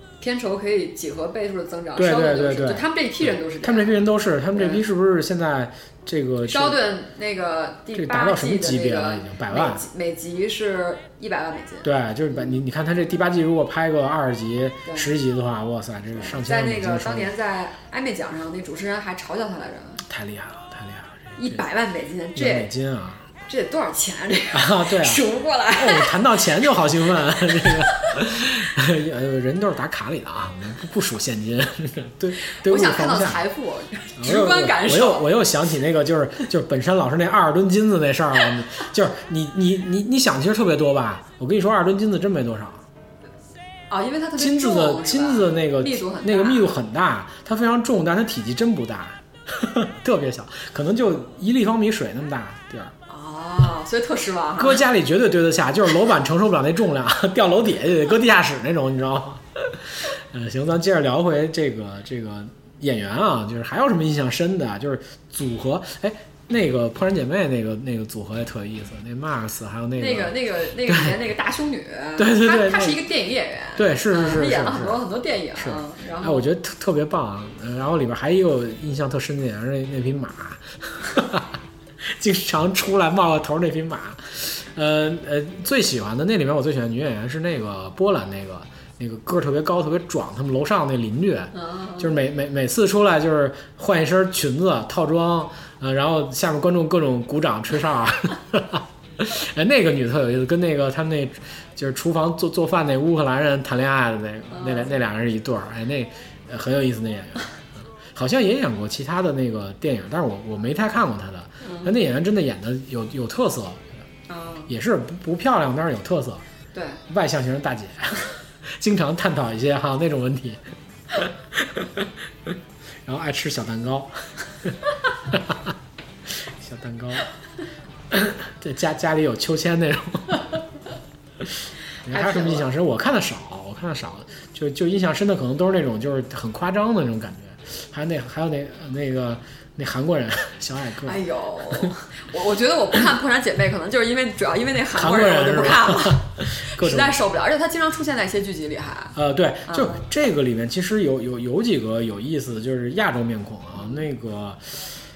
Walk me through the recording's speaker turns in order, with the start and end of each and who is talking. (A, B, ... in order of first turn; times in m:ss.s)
0:00.2-0:04.8 A
0:02.0-0:06.8 B
0:06.4-0:12.6 A
0:07.9-0:09.8 B
0:11.8-0:17.3 B
0:14.8-0:15.1 A
0:16.2-0:20.0 A
0:20.0-0:21.6 B
0:21.4-0:22.7 A
0:22.3-0:23.2 B
0:23.4-0:26.6 A
0:24.5-0:25.2 B
0:25.8-0:33.4 B
0:27.3-0:28.2 A
0:32.4-0:35.3 A
0:34.2-0:42.8 B
0:43.9-0:46.7 A
0:44.4-0:52.9 B
0:53.1-0:54.8 A
0:54.6-1:11.2 B
1:10.0-1:16.5 A
1:12.2-1:13.0 B
1:13.8-1:15.0 B
1:15.6-1:47.6 B
1:31.5-1:32.2 A
1:44.5-1:45.0 A
1:48.1-1:54.0 B
1:51.6-1:51.9 A
1:54.3-1:54.7 A
1:54.7-1:56.4 B
1:56.7-1:57.0 A
1:57.1-2:05.7 B
2:06.3-2:07.3 B
2:08.1-2:10.4 B
2:11.4-2:21.2 B
2:12.1-2:12.7 A
2:21.0-2:29.1 A
2:24.9-2:27.2 B
2:29.1-2:34.8 B
2:29.6-2:30.0 A
2:33.7-2:34.0 A